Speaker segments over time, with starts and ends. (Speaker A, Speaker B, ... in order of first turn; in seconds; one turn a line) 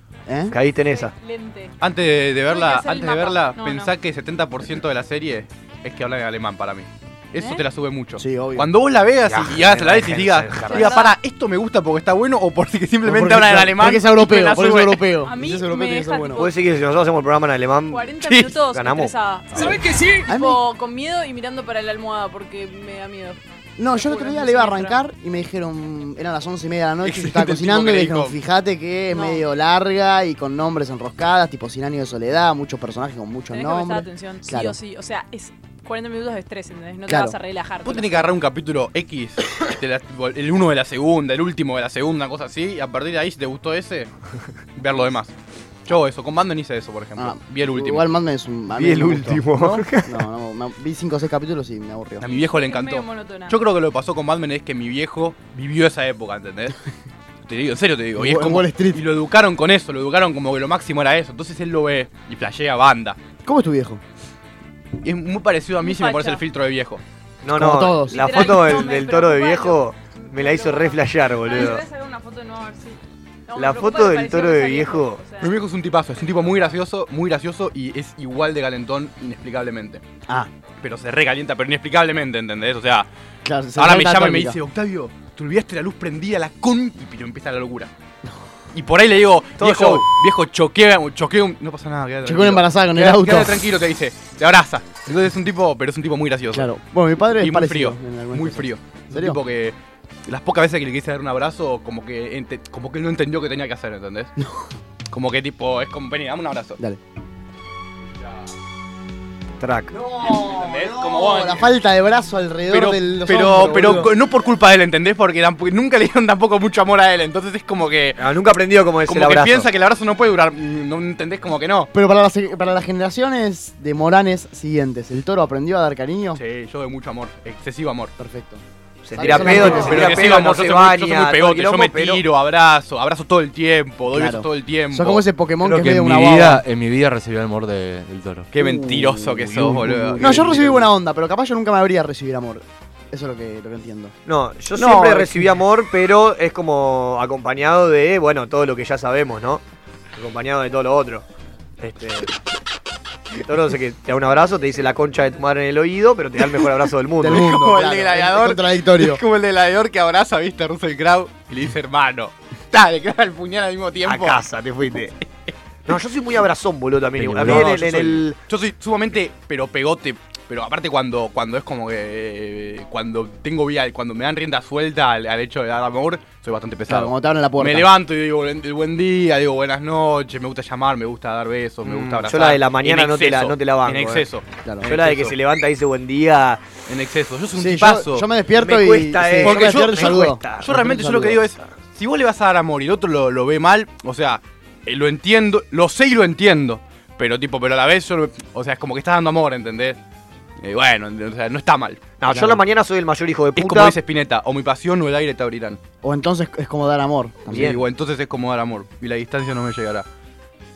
Speaker A: 0.3-0.6
Speaker B: 0.5-1.1
Speaker C: 0.8-1.7
Speaker D: 1.8-15.1
Speaker C: 2.5-3.9
Speaker A: 8.2-8.7
Speaker B: 9.2-10.9
Speaker C: 10.6-11.2
Speaker A: 13.1-16.5
Speaker C: 15.2-16.6
Speaker B: 16.4-19.1
Speaker C: 17.9-25.0
Speaker A: 20.3-20.6
Speaker A: 23.8-34.8
Speaker D: 27.0-28.4
Speaker C: 29.1-29.4
Speaker C: 33.5-38.3
Speaker A: 37.1-37.4
Speaker D: 37.9-44.1
Speaker D: 44.8-45.3
Speaker D: 45.9-48.1
Speaker A: 47.2-52.3
Speaker B: 48.7-50.2
Speaker D: 52.2-56.8
Speaker C: 52.4-53.6
Speaker D: 57.5-63.2
Speaker A: 58.2-59.0
Speaker A: 63.5-64.0
Speaker D: 65.0-67.0
Speaker C: 65.8-66.4
Speaker B: 67.4-71.8
Speaker A: 67.5-68.9
Speaker C: 68.1-75.6
Speaker B: 73.5-75.2
Speaker D: 75.4-80.0
Speaker D: 80.8-83.1
Speaker A: 83.4-84.6
Speaker D: 83.8-87.9
Speaker D: 88.7-96.7
Speaker B: 89.6-90.0
Speaker A: 92.2-93.6
Speaker A: 96.5-99.4
Speaker D: 97.4-104.3
Speaker A: 104.4-104.7
Speaker D: 105.1-106.8
Speaker B: 109.6-110.0
Speaker A: 109.9-114.1
Speaker D: 110.2-111.7
Speaker D: 112.7-118.2
Speaker B: 118.2-119.7
Speaker D: 119.1-121.9
Speaker A: 121.9-126.4
Speaker D: 126.3-128.1
Speaker A: 128.2-130.3
Speaker B: 129.0-132.2
Speaker D: 129.2-135.2
Speaker A: 134.1-136.6
Speaker E: 135.7-140.2
Speaker D: 138.5-140.5
Speaker A: 140.2-144.1
Speaker B: 144.3-149.6
Speaker A: 144.8-145.5
Speaker B: 150.1-151.3
Speaker B: 151.8-152.3
Speaker B: 153.4-157.5
Speaker A: 157.2-159.2
Speaker D: 157.2-164.4
Speaker B: 164.0-165.1
Speaker B: 165.9-168.4
Speaker D: 167.2-185.3
Speaker A: 167.3-167.7
Speaker A: 176.9-177.9
Speaker B: 181.8-184.3
Speaker A: 184.6-184.9
Speaker B: 184.8-186.7
Speaker D: 186.9-188.3
Speaker A: 187.6-191.4
Speaker B: 188.6-190.8
Speaker D: 189.4-200.0
Speaker D: 200.6-202.0
Speaker B: 202.2-204.0
Speaker A: 202.3-202.6
Speaker D: 203.6-205.8
Speaker A: 206.0-207.7
Speaker B: 207.5-207.8
Speaker D: 207.5-210.1